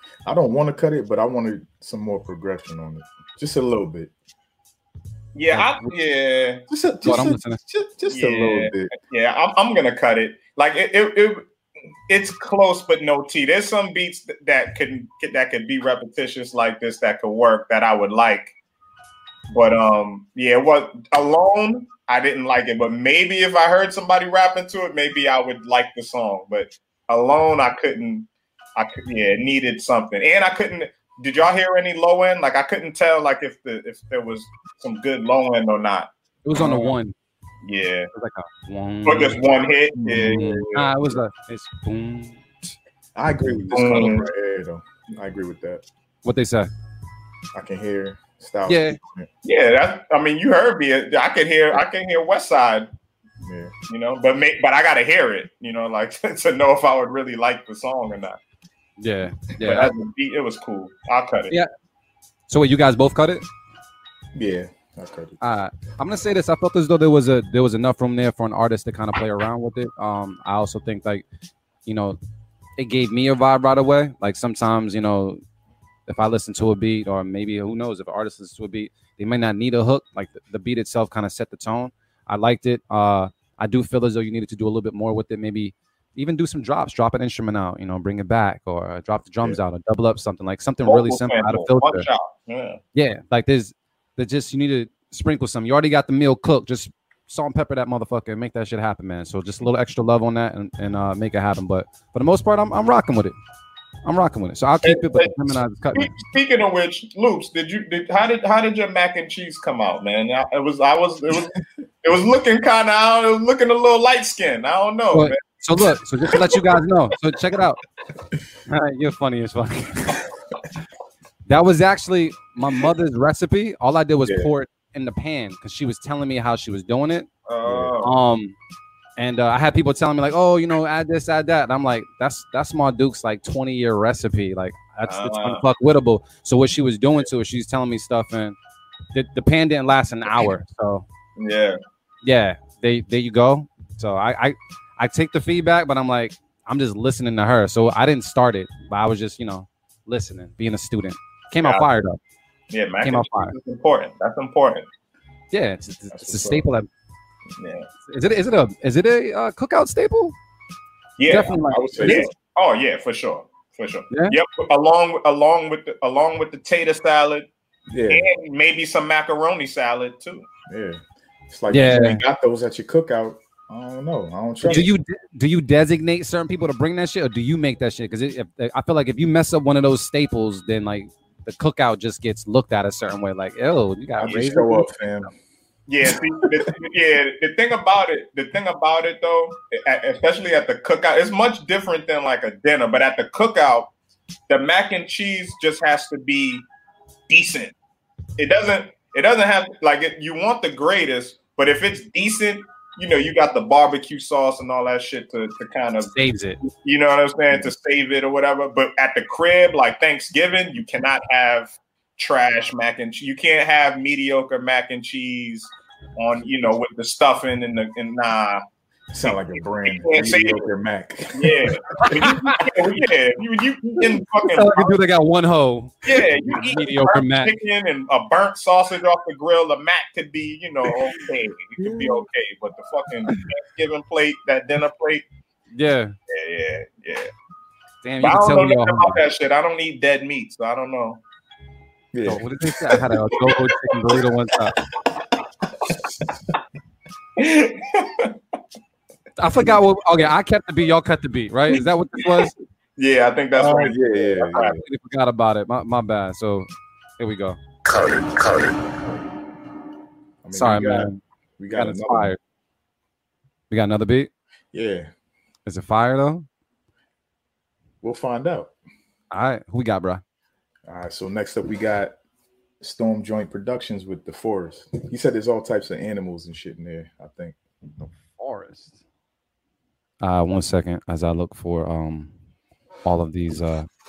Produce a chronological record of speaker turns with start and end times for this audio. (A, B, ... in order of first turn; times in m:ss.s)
0:00.2-0:04.1 A
0:05.4-0:06.6 B
0:05.5-0:05.9 C
0:06.7-0:08.9 A
0:07.0-0:07.6 C
0:08.1-0:11.4 B
0:12.1-0:18.5 B
0:19.5-0:36.1 B
0:36.4-0:37.2 C
0:36.6-0:37.0 A
0:37.6-0:38.1 B
0:38.1-0:39.4 C
0:39.0-0:41.1 B
0:40.1-0:42.7 C
0:43.2-0:45.8 A
0:43.5-0:44.2 C
0:43.7-0:44.3 B
0:46.2-0:46.7 C
0:47.5-0:49.3 A
0:48.7-0:49.0 C
0:49.4-0:52.9 B
0:53.4-0:53.7 A
0:53.9-0:58.4 B
0:59.0-0:59.9 C
0:59.6-1:01.5 B
1:02.5-1:03.5 C
1:04.4-1:05.4 A
1:05.4-1:11.2 C
1:11.9-1:12.2 C
1:12.8-1:15.4 C
1:16.1-1:32.1 C
1:30.8-1:32.8 B
1:33.0-1:43.4 C
1:44.0-1:46.2 C
1:44.8-1:45.3 B
1:46.0-1:55.4 B
1:55.1-1:57.8 C
1:58.7-2:00.2 C
2:01.5-2:07.3 C
2:07.5-2:08.2 B
2:07.6-2:07.9 A
2:08.0-2:08.6 C
2:09.2-2:18.6 C
2:15.0-2:15.6 B
2:19.1-2:21.0 C
2:21.4-2:21.8 B
2:22.2-2:32.2 C
2:32.7-2:34.9 B
2:33.0-2:33.6 C
2:35.5-2:36.9 C
2:35.8-2:36.7 A
2:37.6-2:37.9 B
2:38.1-2:40.4 C
2:41.2-2:47.5 B
2:41.3-2:42.3 C
2:41.7-2:42.3 A
2:44.1-2:44.4 C
2:47.9-2:48.3 A
2:48.1-2:50.5 B
2:50.7-2:54.9 A
2:51.7-2:52.2 C
2:54.6-3:04.9 C
3:04.2-3:05.3 A
3:05.9-3:13.9 B
3:06.0-3:06.6 A
3:14.5-3:16.6 B
3:17.3-3:17.8 B
3:18.4-3:26.1 B
3:26.1-3:26.6 C
3:26.6-3:38.6 B
3:39.1-3:41.8 A
3:39.2-3:40.7 B
3:41.4-3:45.0 B
3:42.0-3:42.6 C
3:44.5-3:47.5 C
3:46.0-3:55.2 B
3:46.4-3:46.7 A
3:51.8-3:52.2 A
3:55.7-3:56.2 C
3:56.3-3:57.3 B
3:58.0-3:59.2 C
3:58.2-4:01.2 B
4:02.1-4:03.0 A
4:02.2-4:04.8 C
4:05.8-4:06.3 A
4:07.4-4:08.4 B
4:09.4-4:12.6 C
4:12.2-4:14.8 B
4:13.6-4:14.8 A
4:14.8-4:17.6 C
4:20.4-4:22.4 A
4:20.5-4:21.2 C
4:21.7-4:22.4 C
4:23.7-4:24.3 C
4:24.7-4:25.1 A
4:25.7-4:26.5 C
4:28.0-4:28.7 A
4:29.3-4:30.2 C
4:30.9-4:32.2 A
4:32.8-4:38.9 A
4:38.5-4:38.9 C
4:40.2-4:42.3 C
4:43.0-4:43.9 C